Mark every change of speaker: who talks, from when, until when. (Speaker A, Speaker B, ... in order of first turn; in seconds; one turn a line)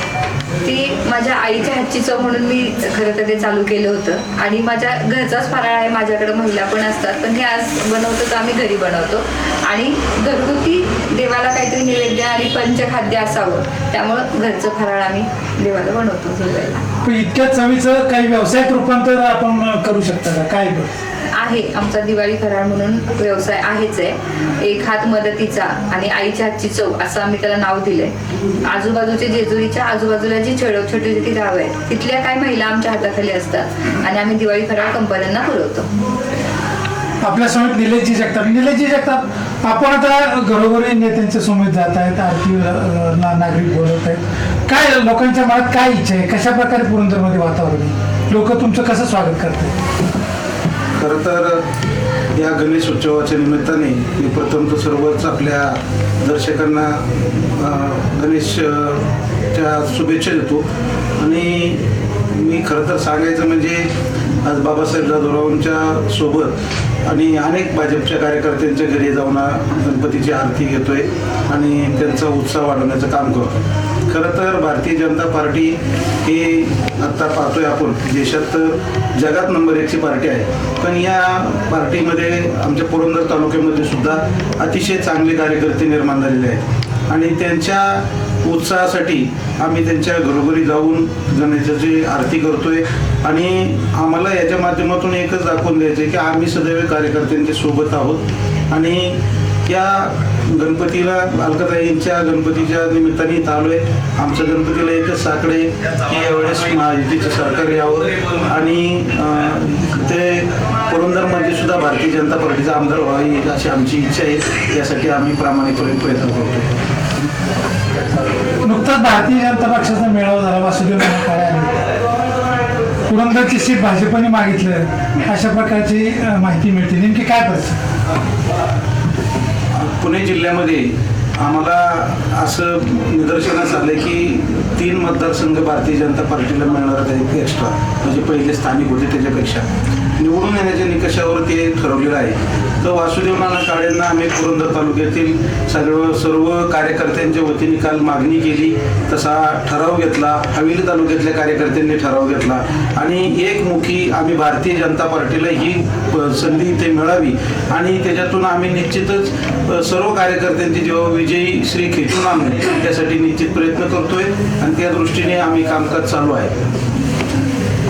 Speaker A: 0.6-16.9
Speaker B: 17.0-20.9
Speaker A: 21.3-28.1
Speaker A: 28.6-35.9
Speaker B: 37.2-49.8
Speaker C: 51.0-51.6
Speaker C: 52.3-60.6
Speaker C: 61.2-63.9
Speaker C: 64.4-73.5
Speaker C: 74.1-116.7
Speaker B: 118.6-121.8
Speaker B: 123.0-127.8
Speaker C: 129.7-139.7
Speaker C: 140.2-166.6